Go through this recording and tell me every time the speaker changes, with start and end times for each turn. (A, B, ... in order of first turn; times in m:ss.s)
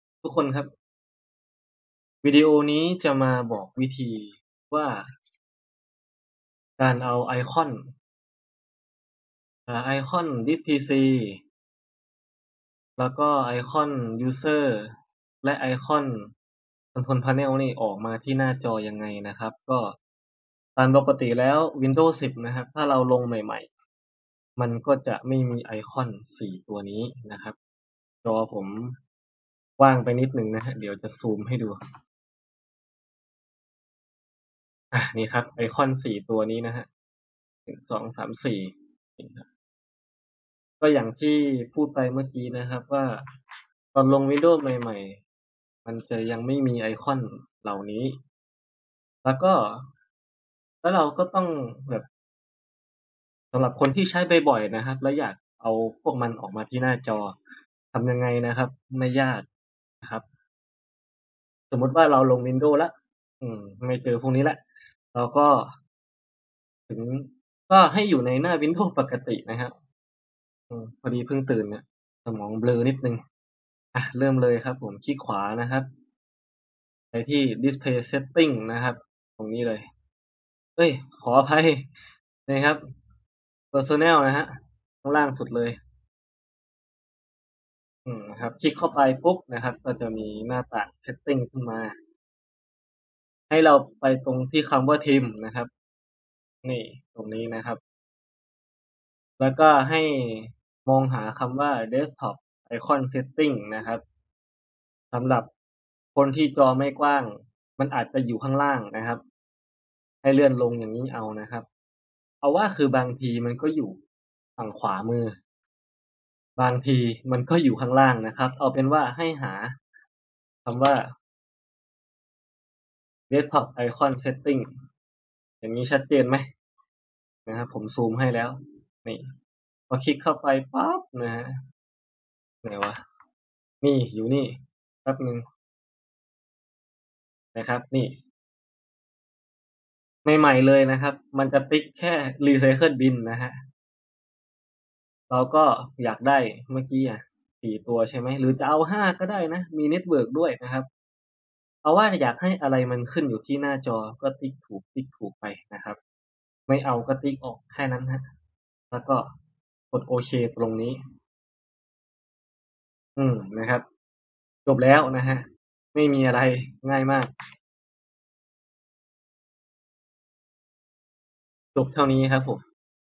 0:00.2-0:00.7 A
0:02.2-0:05.0 A
0:06.8-0:07.8 A
0:09.7-0:11.4 A
0:13.0-0:14.9 A
0:15.4-0:16.3 A
0:16.9-0:19.9 A
0:20.8-0:23.7 A
0:24.6-0:27.5 A
0:28.2-0:28.9 A
0:29.8-0:31.8 A
0:34.9-0:36.9 A
0:37.7-0:39.5 A
0:40.8-0:43.1 A
0:43.9-0:45.2 A
0:45.8-0:48.2 A
0:49.2-0:49.8 A
0:50.8-0:52.0 A
0:53.5-0:57.4 A
0:57.9-0:59.5 A
1:01.7-1:04.6 A
1:05.1-1:05.7 A
1:06.9-1:09.7 A
1:10.7-1:13.2 A
1:13.9-1:15.9 A
1:17.1-1:19.8 A
1:20.8-1:21.9 A
1:22.5-1:22.8 A
1:23.7-1:25.8 A
1:28.0-1:31.9 A
1:33.5-1:35.7 A
1:36.6-1:37.8 A
1:39.4-1:44.0 A
1:45.1-1:45.5 A
1:46.1-1:49.2 A
1:50.2-1:51.6 A
1:52.4-1:54.0 A
1:54.6-1:55.3 A
1:56.6-1:59.7 A
2:00.6-2:01.0 A
2:03.3-2:04.7 A
2:05.6-2:06.4 A
2:07.4-2:09.2 A
2:09.9-2:11.5 A
2:12.6-2:13.0 A
2:13.8-2:15.4 A
2:17.5-2:18.2 A
2:20.2-2:23.5 A
2:25.3-2:30.9 A
2:31.8-2:36.0 A
2:36.7-2:38.2 A
2:38.9-2:39.2 A
2:39.9-2:41.0 A
2:43.2-2:43.8 A
2:44.6-2:47.3 A
2:51.7-2:52.6 A